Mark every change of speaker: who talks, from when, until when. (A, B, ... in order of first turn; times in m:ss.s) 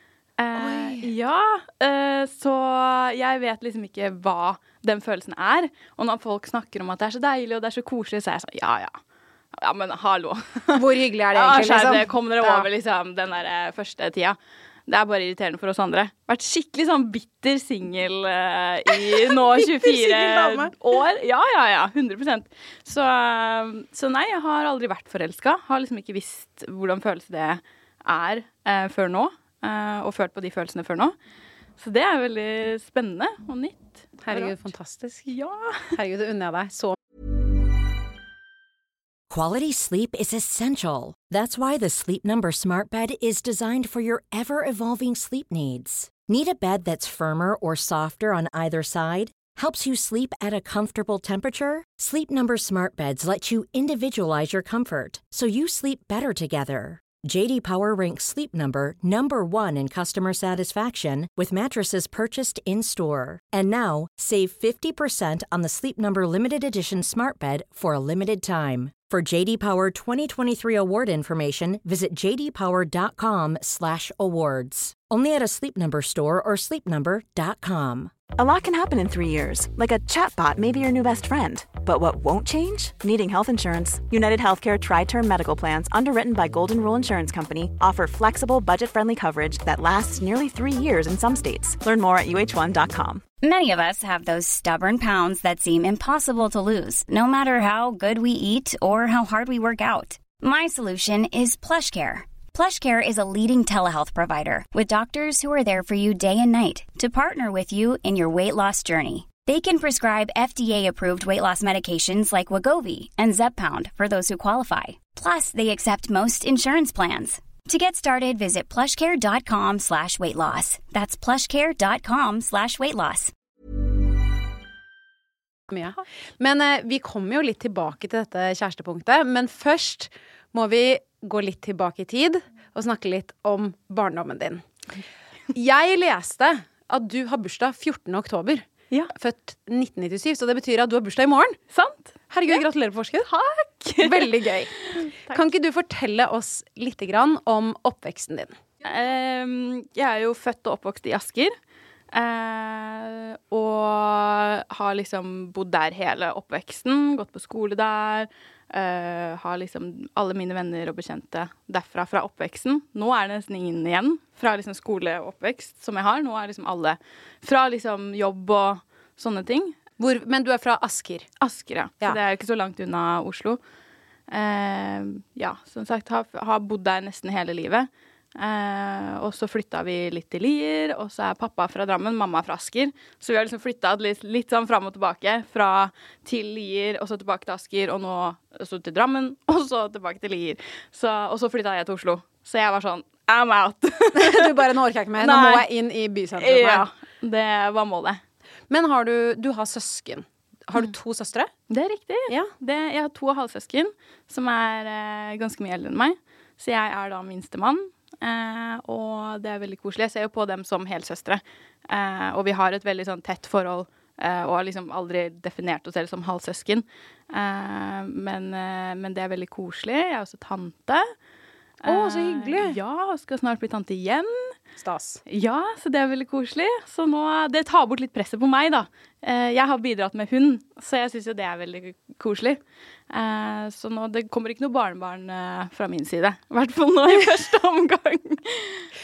0:00.4-0:09.0 A
0:00.5-0:01.1 B
0:09.5-0:10.7 A
0:10.7-0:12.7 B
0:11.3-0:31.1 A
0:18.9-0:20.7 B
0:31.8-0:34.7 A
0:34.2-0:35.3 B
0:35.3-0:36.0 A
0:35.9-0:37.0 B
0:39.3-1:18.1 C
1:18.4-1:33.2 D
1:33.4-2:03.3 E
2:05.7-2:14.6 B
2:15.5-2:21.6 B
2:21.7-2:22.6 A
2:22.3-2:23.3 B
2:23.2-2:25.4 A
2:24.0-2:28.6 B
2:28.8-2:31.5 A
2:32.1-2:49.8 A
2:50.0-2:51.3 B
2:51.4-2:53.6 A
2:54.3-3:14.5 A
3:14.1-3:16.9 B
3:15.2-3:15.6 A
3:16.4-3:18.2 A
3:18.7-3:21.5 B
3:21.7-3:41.1 A
3:41.8-3:44.5 A
3:41.8-3:42.8 B
3:44.8-3:45.2 B
3:45.3-3:58.9 A